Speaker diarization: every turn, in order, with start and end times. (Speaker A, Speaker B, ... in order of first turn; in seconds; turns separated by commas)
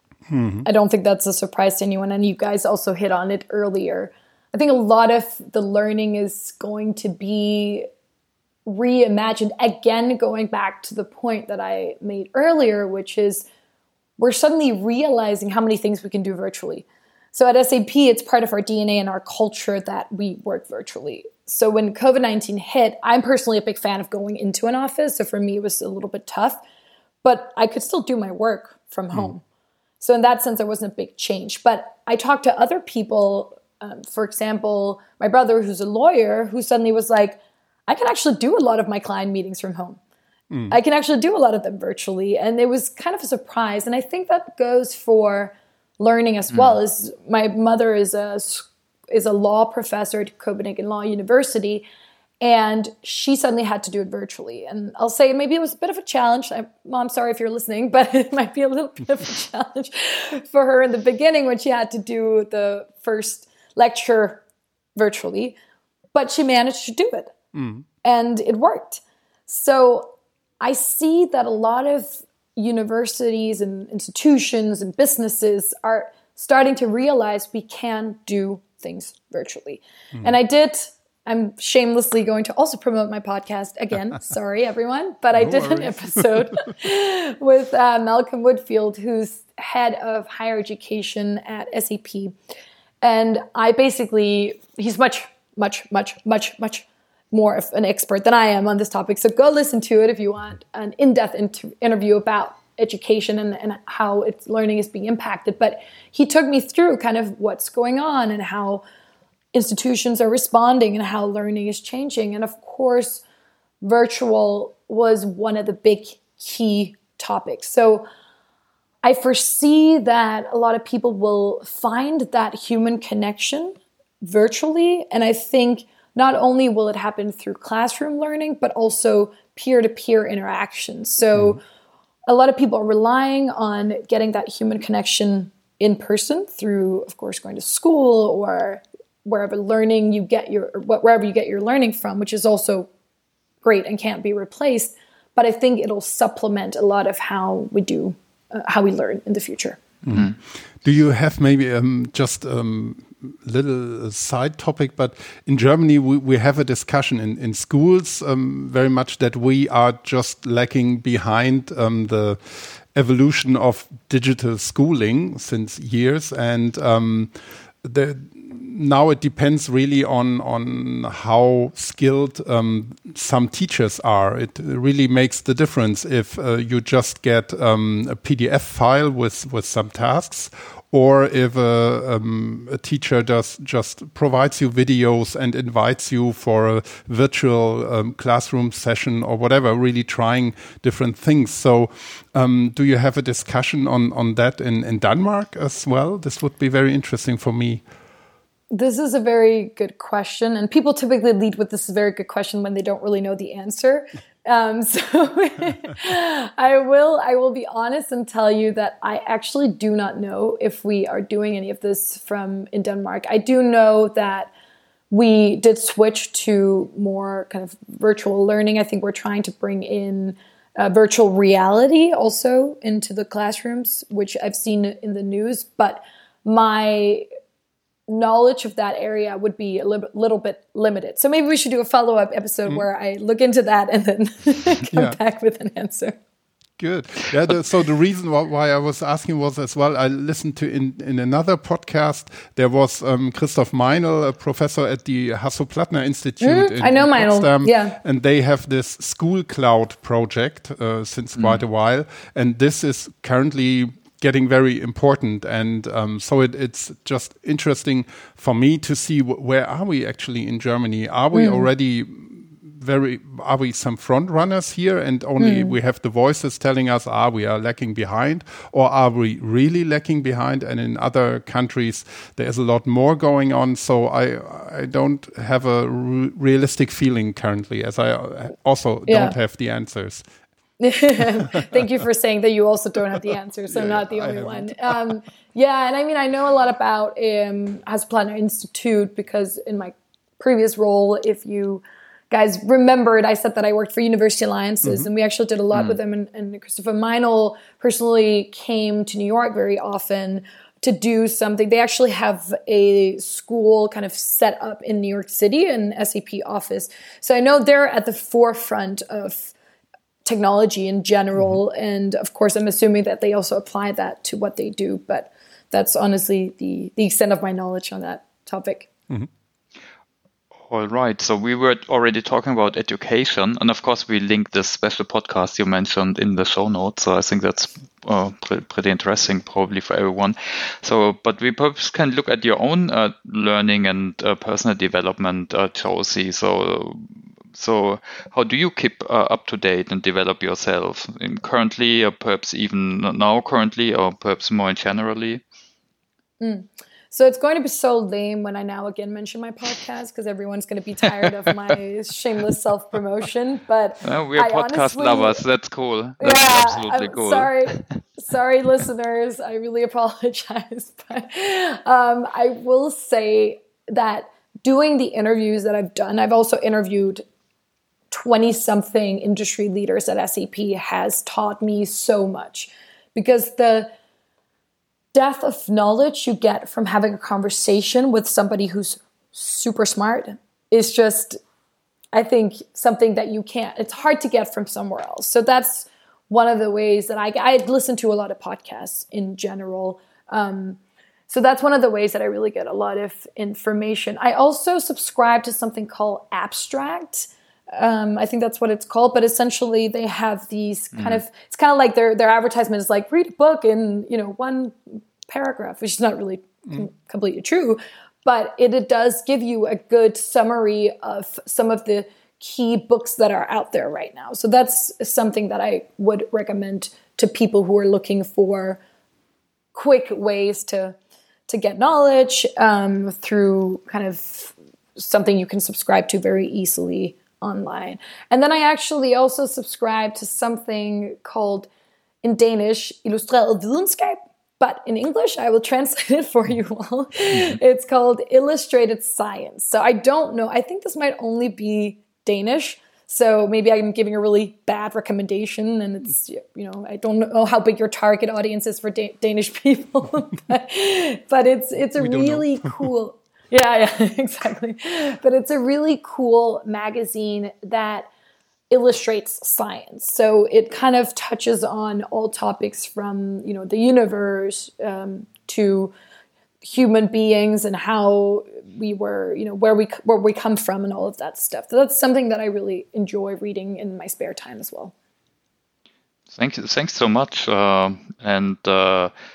Speaker A: 0.3-0.7, Speaker B: 0.7-7.9, Speaker B: 8.7-13.5, Speaker B: 14.2-26.6, Speaker B: 27.2-29.4, Speaker B: 30.0-40.0, Speaker A: 40.5-40.8, Speaker B: 40.7-51.9, Speaker C: 46.5-46.8, Speaker B: 52.4-64.4, Speaker B: 65.0-65.6, Speaker B: 66.1-67.3, Speaker A: 67.5-67.8, Speaker B: 68.0-92.3, Speaker A: 85.3-86.4, Speaker B: 93.0-108.8, Speaker B: 109.5-113.2, Speaker B: 113.8-118.1, Speaker B: 119.0-131.6, Speaker A: 131.3-131.6, Speaker B: 132.3-142.9, Speaker B: 143.6-149.8, Speaker A: 150.0-197.8, Speaker B: 198.7-214.5, Speaker B: 215.1-227.3, Speaker B: 228.1-236.2, Speaker A: 234.9-235.2, Speaker A: 236.8-280.2, Speaker B: 246.4-248.0, Speaker B: 261.3-261.7, Speaker B: 265.4-265.8, Speaker B: 279.1-279.4, Speaker B: 280.8-309.5, Speaker A: 283.7-285.0, Speaker B: 310.2-318.9, Speaker C: 320.7-345.4, Speaker B: 346.4-355.4, Speaker C: 354.0-357.9, Speaker B: 356.2-367.2, Speaker B: 368.1-373.9, Speaker B: 375.1-381.4, Speaker B: 382.1-418.8, Speaker C: 400.9-401.2, Speaker B: 419.7-421.0, Speaker B: 421.5-431.7, Speaker B: 432.2-458.1, Speaker A: 452.0-452.9, Speaker B: 458.7-465.9, Speaker B: 466.6-474.9, Speaker C: 476.3-479.1